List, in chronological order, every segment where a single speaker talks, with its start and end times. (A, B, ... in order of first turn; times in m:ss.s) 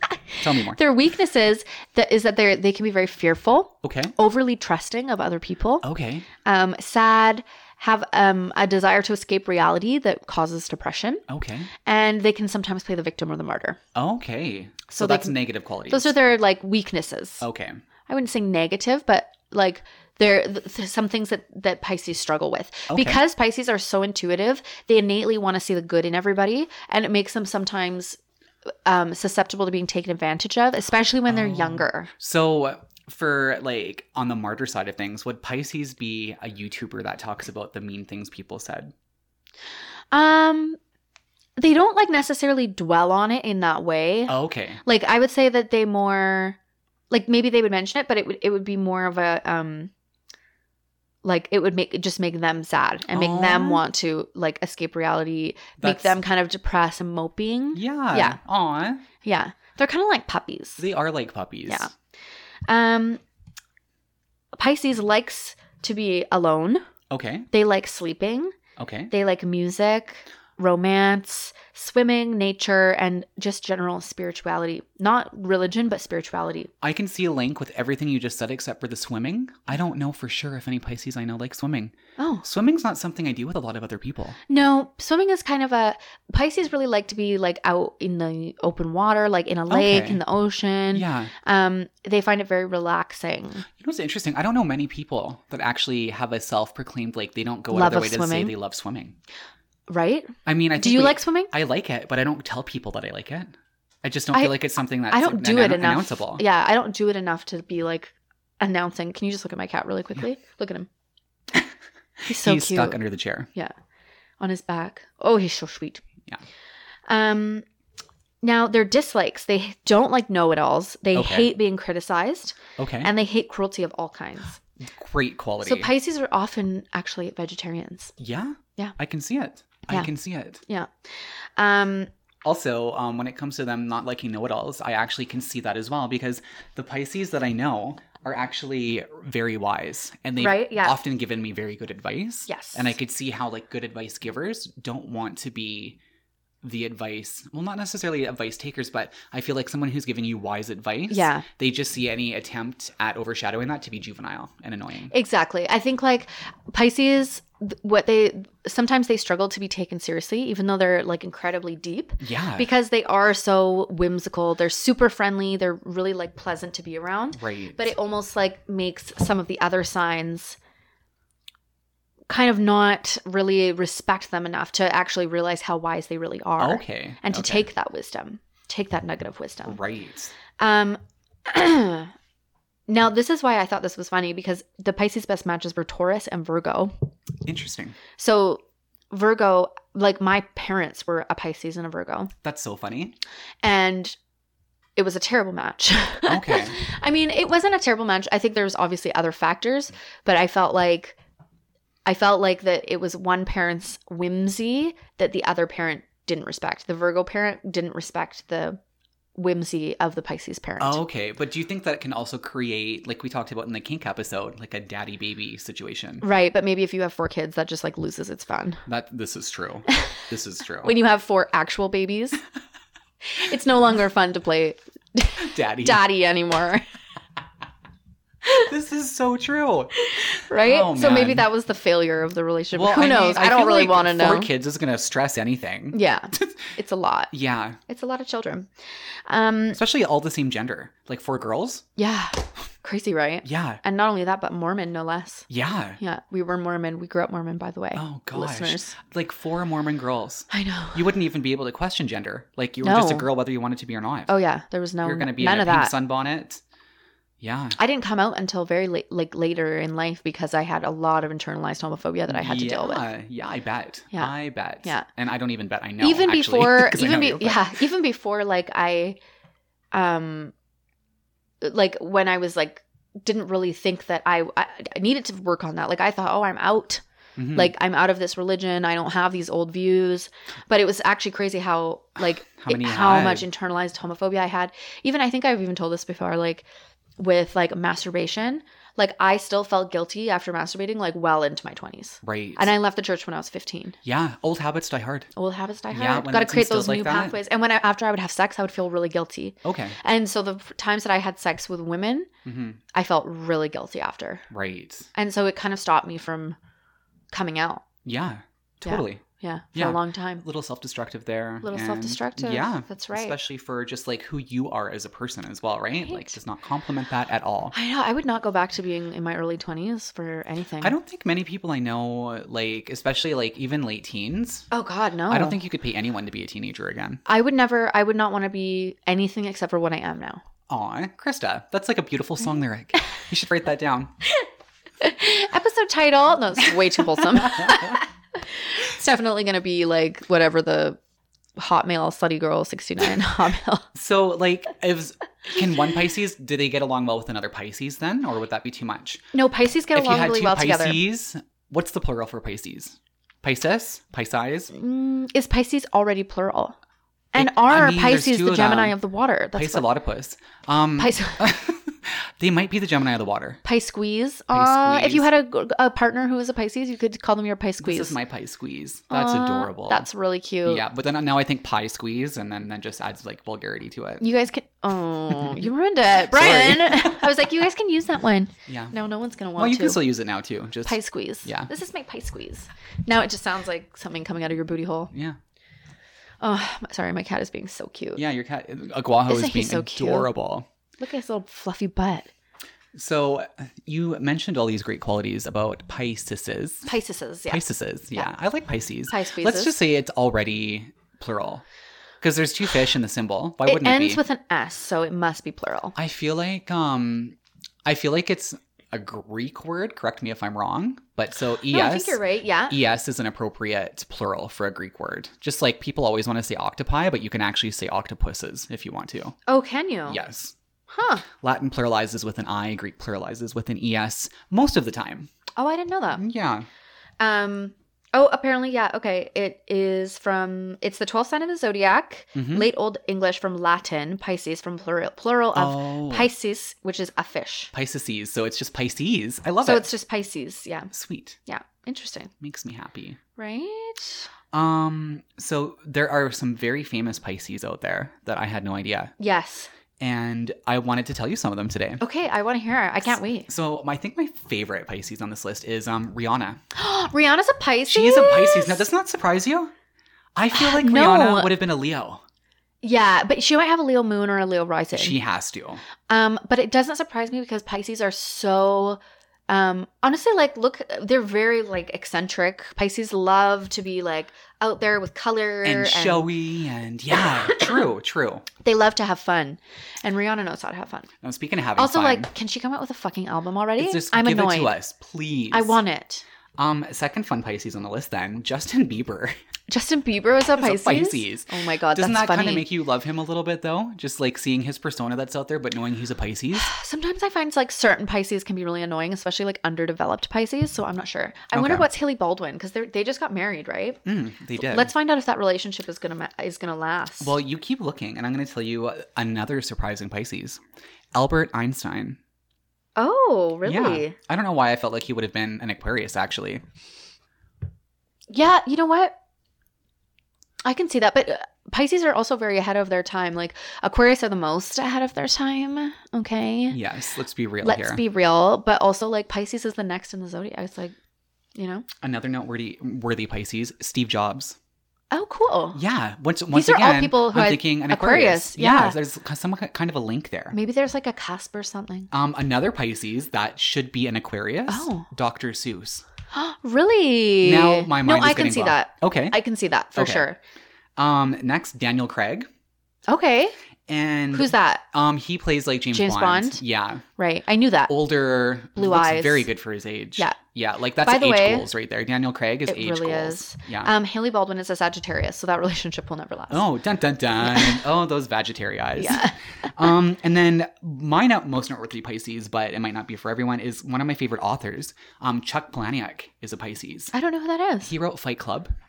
0:00.3-0:05.8 A
0:00.4-0:00.8 B
0:03.8-0:04.1 B
0:05.8-0:06.3 B
0:06.4-0:11.2 A
0:11.3-0:11.7 B
0:11.8-0:13.8 A
0:14.0-0:16.2 B
0:14.9-0:15.4 A
0:15.9-0:17.4 A
0:17.4-0:17.8 B
0:18.1-0:28.2 A
0:22.9-0:23.2 B
0:28.9-0:32.1 A
0:31.3-0:38.9 B
0:40.1-0:40.8 A
0:41.6-0:46.6 A
0:44.3-0:44.8 B
0:47.1-0:49.9 A
0:51.2-0:58.4 A
0:53.1-0:53.8 B
0:55.8-0:56.2 B
0:57.7-0:59.0 B
0:59.2-1:00.8 A
1:00.8-1:01.9 B
1:02.7-1:03.2 A
1:04.6-1:06.8 A
1:07.1-1:07.5 B
1:07.5-1:08.6 A
1:08.8-1:09.1 B
1:09.1-1:16.7 A
1:16.8-1:24.4 B
1:22.2-1:22.4 A
1:24.5-1:33.7 A
1:29.7-1:30.2 B
1:30.9-1:31.3 B
1:33.8-1:39.2 B
1:37.7-1:38.5 A
1:39.9-1:41.5 A
1:40.5-1:46.4 B
1:45.1-1:50.9 A
1:52.2-1:53.5 B
1:52.3-1:53.0 A
1:54.4-1:56.0 A
1:57.1-1:57.6 A
1:58.4-2:04.6 A
2:01.1-2:01.5 B
2:02.8-2:03.1 B
2:04.8-2:05.9 B
2:05.6-2:08.1 A
2:08.2-2:10.6 B
2:10.7-2:10.9 A
2:11.6-2:12.1 A
2:12.4-2:26.0 B
2:20.4-2:21.0 A
2:22.5-2:23.0 A
2:26.6-2:35.1 B
2:31.1-2:31.5 A
2:35.1-2:50.6 A
2:42.2-2:42.7 B
2:47.4-2:47.9 B
2:52.3-2:59.8 A
2:56.6-2:57.7 B
2:59.6-3:00.3 B
3:00.6-3:02.1 A
3:02.9-3:06.9 A
3:07.4-3:08.0 B
3:08.2-3:12.3 A
3:12.4-3:13.2 B
3:13.6-3:14.2 A
3:15.0-3:21.2 A
3:16.3-3:16.8 B
3:22.1-3:28.8 A
3:29.4-3:31.0 A
3:30.8-3:36.2 B
3:36.2-3:38.8 A
3:38.9-3:41.0 B
3:40.8-3:42.4 A
3:43.2-3:46.8 A
3:45.4-3:46.0 B
3:48.4-3:51.5 B
3:50.0-3:54.5 A
3:52.7-3:56.7 B
3:55.9-3:57.3 A
3:57.3-3:57.8 B
3:57.9-3:58.7 A
3:59.3-3:59.8 A
3:59.7-4:01.8 B
4:02.0-4:05.5 A
4:03.4-4:03.8 B
4:05.5-4:06.0 B
4:06.0-4:09.0 A
4:08.0-4:14.3 B
4:10.5-4:11.1 A
4:12.8-4:13.3 A
4:14.3-4:15.9 A
4:15.0-4:16.6 B
4:17.4-4:17.8 B
4:17.8-4:23.0 A
4:22.3-4:27.7 B
4:24.1-4:25.1 A
4:26.0-4:29.2 A
4:29.9-4:30.5 A
4:31.6-4:37.0 A
4:37.4-4:37.7 B
4:37.5-4:46.7 A
4:42.6-4:43.5 B
4:47.2-4:54.0 A
4:52.2-4:52.7 B
4:54.0-4:55.3 B
4:55.4-5:02.3 A
4:55.9-4:57.4 B
4:59.6-5:00.0 B
5:02.4-5:02.8 B
5:02.9-5:04.5 A
5:04.5-5:05.1 B
5:05.1-5:06.6 A
5:07.3-5:07.8 A
5:08.0-5:09.2 B
5:08.8-5:10.4 A
5:09.8-5:17.7 B
5:11.6-5:13.4 A
5:16.0-5:16.4 A
5:17.7-5:21.0 A
5:20.8-5:24.7 B
5:24.7-5:25.6 A
5:25.3-5:27.2 B
5:27.3-5:30.4 A
5:30.7-5:34.1 B
5:35.0-5:41.0 A
5:37.2-5:38.0 B
5:41.6-5:43.9 A
5:44.0-5:49.3 B
5:49.3-5:51.0 A
5:49.9-5:54.7 B
5:54.7-5:56.8 A
5:57.3-5:59.9 A
5:57.4-5:59.0 B
5:59.6-6:03.6 B
6:01.0-6:01.5 A
6:03.6-6:08.2 A
6:04.5-6:05.3 B
6:07.8-6:10.0 B
6:09.1-6:10.8 A
6:10.6-6:14.2 B
6:14.2-6:20.0 A
6:16.2-6:17.3 B
6:18.7-6:19.0 B
6:19.6-6:21.7 B
6:20.9-6:25.1 A
6:25.1-6:25.4 B
6:26.4-6:28.2 A
6:28.2-6:30.7 B
6:29.3-6:30.3 A
6:31.0-6:32.3 A
6:32.9-6:36.9 B
6:36.9-6:37.6 A
6:37.5-6:41.6 B
6:39.1-6:39.8 A
6:42.2-6:44.2 B
6:43.6-6:46.0 A
6:46.0-6:59.4 B
6:51.7-6:52.8 A
6:59.5-7:00.2 A
7:00.1-7:00.6 B
7:00.9-7:01.3 A
7:01.4-7:05.3 B
7:05.6-7:06.2 A
7:06.1-7:06.7 B
7:07.2-7:17.7 A
7:12.4-7:12.7 B
7:15.6-7:16.3 B
7:17.7-7:19.9 B
7:19.6-7:20.9 A
7:20.9-7:21.4 B
7:21.5-7:22.3 A
7:22.4-7:23.2 B
7:23.4-7:24.3 A
7:24.5-7:29.1 B
7:29.2-7:29.7 A
7:30.0-7:32.0 B
7:32.0-7:33.5 A
7:33.5-7:36.6 B
7:36.7-7:38.8 A
7:37.9-7:39.7 B
7:40.4-7:42.2 B
7:40.5-7:41.6 A
7:42.8-7:45.2 A
7:44.9-7:45.8 B
7:46.1-7:56.3 A
7:55.6-7:58.5 B
7:58.6-8:01.1 A
8:01.2-8:02.3 B
8:01.8-8:04.7 A
8:03.8-8:05.8 B
8:05.5-8:06.2 A
8:06.6-8:09.4 B
8:09.7-8:12.7 A
8:10.6-8:16.7 B
8:16.5-8:24.0 A
8:21.5-8:21.9 B
8:24.0-8:24.9 B
8:24.6-8:27.3 A
8:27.2-8:30.6 B
8:31.1-8:32.2 B
8:33.0-8:34.2 A
8:33.6-8:36.6 B
8:38.3-8:39.2 A
8:40.6-8:46.8 A
8:46.7-8:48.0 B
8:47.6-8:51.0 A
8:51.6-8:51.9 A
8:52.0-8:54.6 B
8:55.1-8:55.8 A
8:55.7-9:00.6 B
8:56.5-8:59.0 A
9:00.5-9:02.1 A
9:02.1-9:06.0 B
9:04.7-9:05.1 A
9:06.3-9:10.4 A
9:07.4-9:09.4 B
9:10.0-9:10.3 B
9:11.0-9:12.5 B
9:13.1-9:13.6 A
9:13.9-9:17.0 B
9:14.3-9:14.8 A
9:15.9-9:16.6 A
9:17.2-9:17.9 A
9:17.9-9:23.9 B
9:18.8-9:19.5 A
9:21.0-9:21.7 A
9:22.7-9:26.7 A
9:26.5-9:37.1 B
9:27.4-9:27.8 A
9:29.0-9:29.8 A
9:37.1-9:37.9 A
9:37.8-9:38.7 B